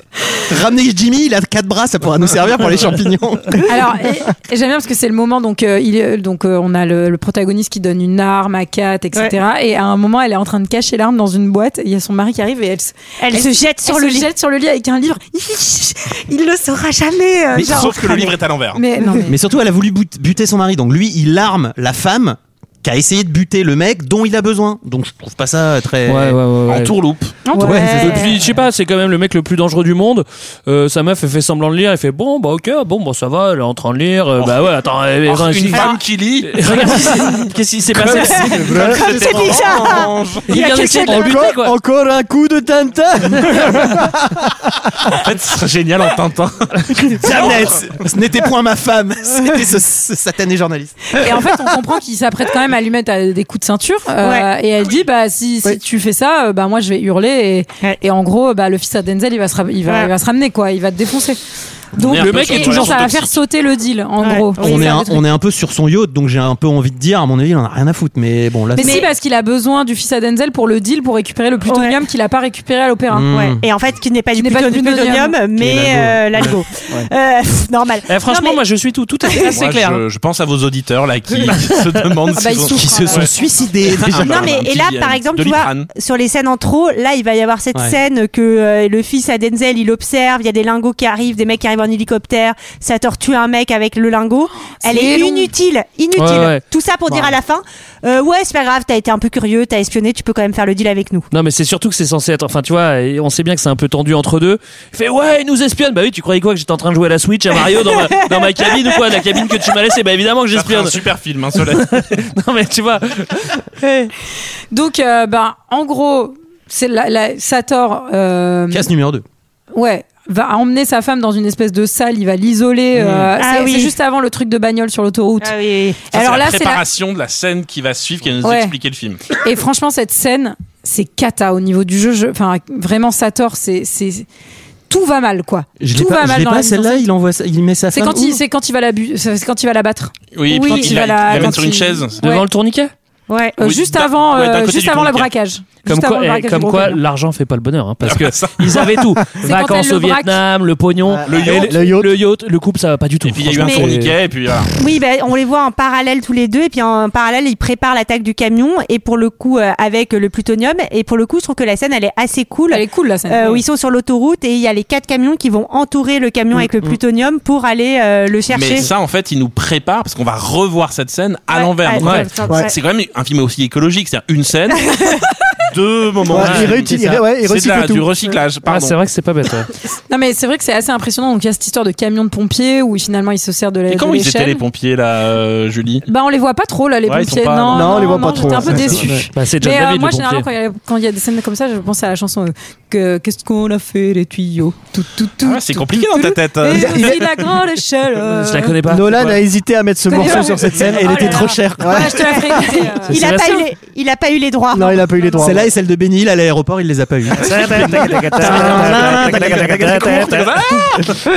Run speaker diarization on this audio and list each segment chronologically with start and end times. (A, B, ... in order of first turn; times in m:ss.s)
0:00.5-0:03.9 A
0:03.7-0:19.4 B
0:13.2-0:14.3 C
0:17.5-0:18.0 A
0:17.7-0:18.8 D
0:19.2-0:26.4 A
0:26.1-0:27.0 E
0:26.7-0:27.3 D
0:27.4-0:27.8 B
0:27.6-0:28.4 C
0:27.6-0:28.3 A
0:27.8-0:38.7 E
0:35.2-0:37.2 D
0:38.0-0:41.4 D
0:38.1-0:41.1 C
0:38.5-0:39.0 F
0:38.8-0:40.0 A
0:40.5-0:41.8 E
0:41.0-0:44.5 F
0:45.1-0:47.8 D
0:47.2-0:51.3 A
0:51.1-1:01.4 B
1:02.0-1:05.2 B
1:02.0-1:03.3 D
1:02.1-1:03.1 E
1:04.2-1:05.0 C
1:04.6-1:09.0 A
1:08.7-1:13.3 B
1:08.8-1:09.1 C
1:11.6-1:12.0 C
1:13.1-1:13.6 A
1:13.3-1:18.6 C
1:14.3-1:15.3 B
1:15.6-1:16.6 A
1:18.1-1:20.0 E
1:19.5-1:23.3 D
1:21.5-1:21.8 E
1:22.4-1:23.4 B
1:22.7-1:24.6 A
1:23.8-1:25.9 D
1:24.1-1:41.3 C
1:34.8-1:35.5 B
1:36.2-1:36.6 E
1:41.3-1:51.0 E
1:50.5-1:52.2 D
1:51.6-1:54.1 E
1:54.7-1:58.9 B
1:58.7-1:59.2 A
1:59.7-2:05.5 B
2:03.4-2:03.9 C
2:05.4-2:06.0 C
2:06.0-2:06.8 B
2:06.1-2:09.2 D
2:08.4-2:08.7 B
2:09.4-2:14.3 B
2:14.9-2:17.0 B
2:15.8-2:18.4 A
2:17.9-2:22.4 B
2:20.3-2:22.2 D
2:20.5-2:21.8 C
2:22.2-2:22.9 E
2:23.3-2:23.6 C
2:23.6-2:27.0 B
2:23.6-2:25.3 D
2:25.9-2:34.1 E
2:28.0-2:28.9 D
2:29.4-2:30.4 B
2:31.0-2:32.2 F
2:31.2-2:31.8 D
2:33.2-2:34.7 D
2:33.6-2:33.9 C
2:34.8-2:48.9 C
2:42.7-2:43.6 B
2:48.5-2:54.9 D
2:51.5-2:52.7 C
2:52.0-2:52.3 E
2:55.7-2:59.0 D
2:56.3-2:58.1 F
2:56.4-2:56.8 E
2:58.6-2:59.7 E
3:00.1-3:04.6 B
3:03.9-3:06.0 D
3:06.0-3:18.8 B
3:07.1-3:08.6 D
3:07.7-3:09.3 F
3:08.6-3:10.4 E
3:15.4-3:17.4 D
3:16.8-3:17.1 F
3:18.3-3:19.4 E
3:18.9-3:22.9 F
3:20.1-3:23.2 B
3:20.8-3:22.3 A
3:22.4-3:25.3 C
3:23.1-3:23.6 E
3:24.7-3:25.7 F
3:25.0-3:25.6 B
3:25.4-3:30.5 A
3:27.3-3:31.0 E
3:29.9-3:31.2 D